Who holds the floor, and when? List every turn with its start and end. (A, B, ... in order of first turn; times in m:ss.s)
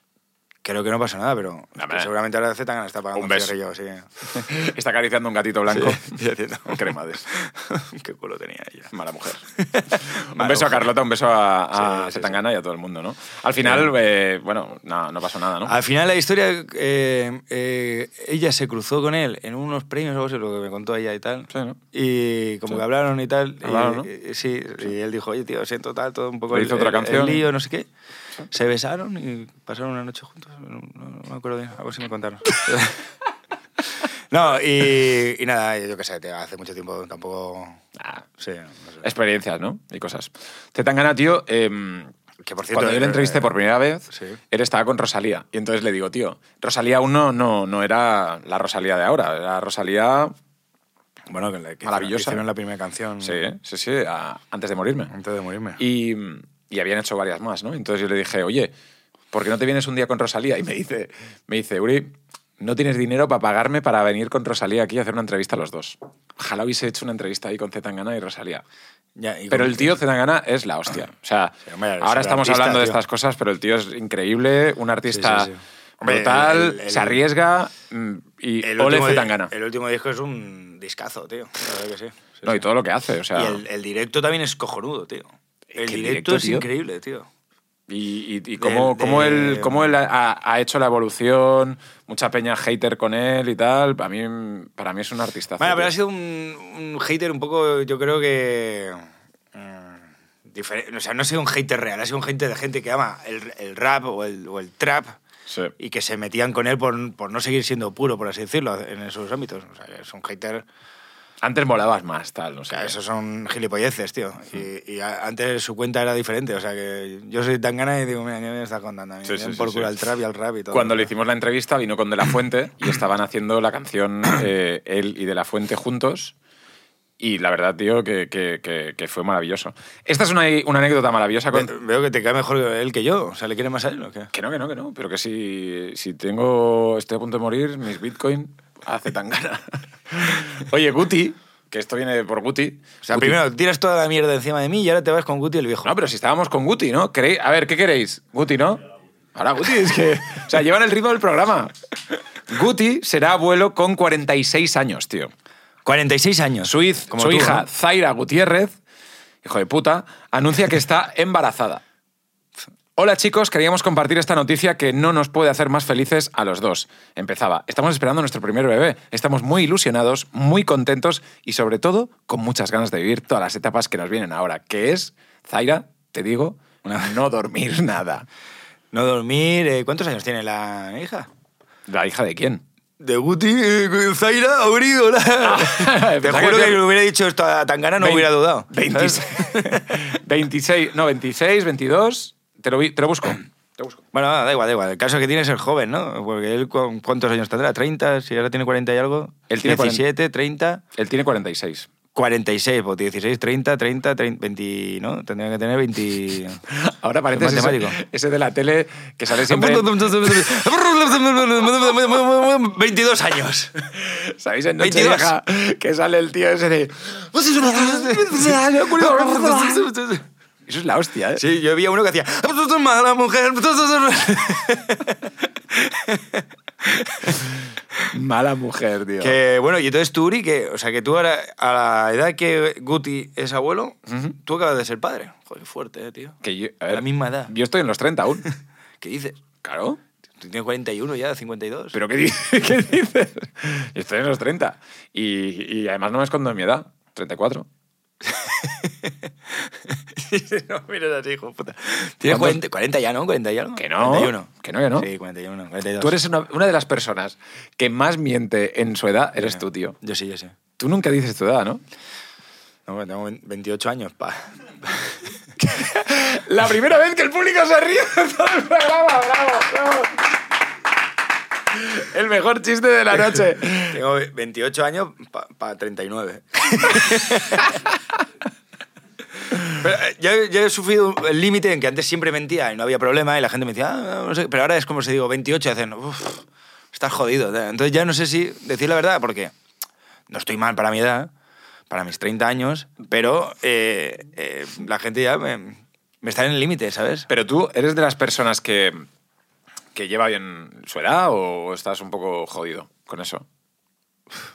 0:00.6-0:04.5 A
0:01.8-0:02.1 B
0:03.2-0:03.5 B
0:04.3-0:07.2 B
0:05.7-0:08.9 A
0:08.9-0:09.4 B
0:09.6-0:10.9 A
0:10.2-0:15.7 B
0:11.8-0:12.4 A
0:13.6-0:13.9 A
0:15.6-0:27.9 A
0:21.5-0:21.8 B
0:23.6-0:24.1 B
0:26.5-0:27.4 B
0:28.5-0:33.0 A
0:34.3-0:37.8 A
0:38.0-0:38.2 B
0:38.4-0:39.0 A
0:39.0-0:42.1 B
0:42.4-0:43.5 A
0:42.7-0:50.3 B
0:44.1-0:44.4 A
0:51.3-0:53.4 A
0:51.8-0:52.4 B
0:53.2-0:55.1 B
0:55.1-0:55.8 A
0:55.8-0:58.7 B
0:59.3-1:08.6 B
1:09.2-1:10.0 A
1:09.5-1:15.5 B
1:11.7-1:13.0 A
1:15.1-1:17.2 A
1:16.0-1:19.5 B
1:18.6-1:22.6 A
1:22.4-1:23.6 B
1:23.3-1:27.3 A
1:25.7-1:26.7 B
1:27.9-1:35.9 B
1:28.6-1:29.9 A
1:35.6-1:45.2 A
1:45.8-1:50.6 A
1:51.4-1:53.0 B
1:52.7-2:01.1 A
1:59.2-1:59.9 B
2:00.7-2:06.4 B
2:07.2-2:11.7 B
2:11.5-2:14.3 A
2:14.3-2:23.4 B
2:23.0-2:26.0 A
2:25.8-2:28.8 B
2:29.4-2:35.3 B
2:35.8-2:37.7 A
2:36.6-2:38.8 B
2:39.4-2:41.8 B
2:43.0-2:58.3 B
2:56.8-2:57.1 A
2:58.9-3:01.3 A
3:01.9-3:02.6 B
3:03.0-3:10.0 A
3:05.4-3:06.8 B
3:08.0-3:14.0 B
3:14.1-3:20.8 A
3:19.5-3:20.0 B
3:21.0-3:21.9 B
3:22.2-3:26.6 A
3:26.7-3:30.6 B
3:27.3-3:28.0 A
3:29.4-3:33.8 A
3:33.9-3:39.8 B
3:34.8-3:35.3 A
3:37.5-3:40.2 A
3:40.7-3:41.4 B
3:41.4-3:47.4 A
3:48.1-3:49.4 B
3:49.2-3:56.4 A
3:54.1-3:54.4 B
3:56.4-3:58.5 B
3:56.9-3:57.5 A
3:59.0-3:59.4 A
3:59.6-4:00.0 B
4:00.4-4:02.0 A
4:01.9-4:07.7 B
4:08.2-4:16.2 A
4:12.3-4:12.6 B
4:13.8-4:15.1 B
4:16.0-4:20.0 B
4:19.4-4:20.6 A
4:20.8-4:21.8 B
4:22.9-4:25.2 A
4:25.6-4:30.3 B
4:31.7-4:34.0 B
4:33.9-4:37.8 A
4:39.6-4:49.5 A
4:50.3-4:51.3 A
4:51.9-4:57.3 A
4:57.3-4:59.0 B
5:00.0-5:03.4 B